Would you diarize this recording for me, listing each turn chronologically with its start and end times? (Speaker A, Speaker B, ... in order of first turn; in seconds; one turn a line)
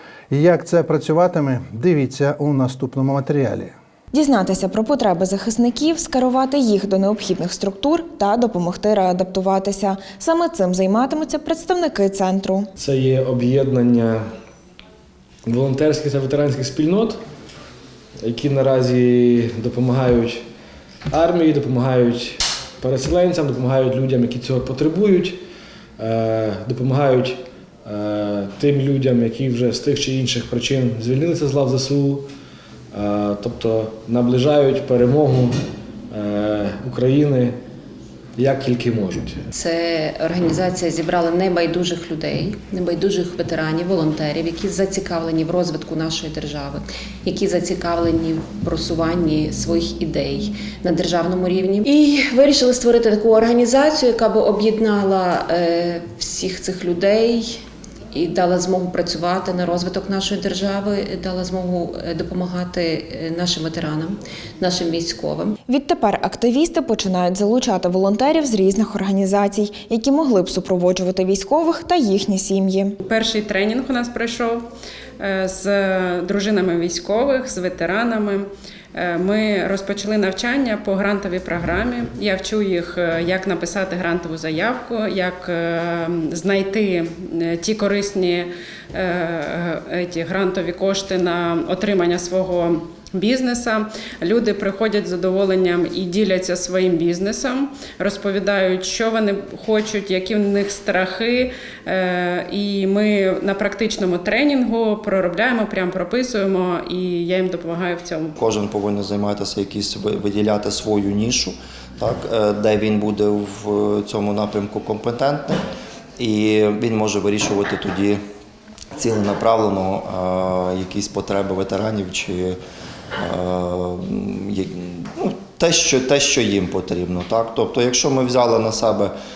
Speaker A: 0.3-3.7
Speaker B: 4.1-12.7
Speaker C: 12.8-14.2
Speaker C: 15.4-17.2
Speaker C: 18.2-20.4
Speaker C: 21.1-25.4
Speaker C: 26.0-32.3
Speaker C: 32.9-35.6
Speaker C: 36.1-37.5
Speaker C: 38.4-39.4
Speaker D: 39.5-57.6
Speaker D: 58.1-65.5
Speaker B: 65.7-72.9
Speaker E: 73.0-74.6
Speaker E: 75.2-108.3
Speaker F: 108.4-115.6
Speaker F: 116.2-118.2
Speaker F: 118.9-122.5
Speaker F: 123.2-129.1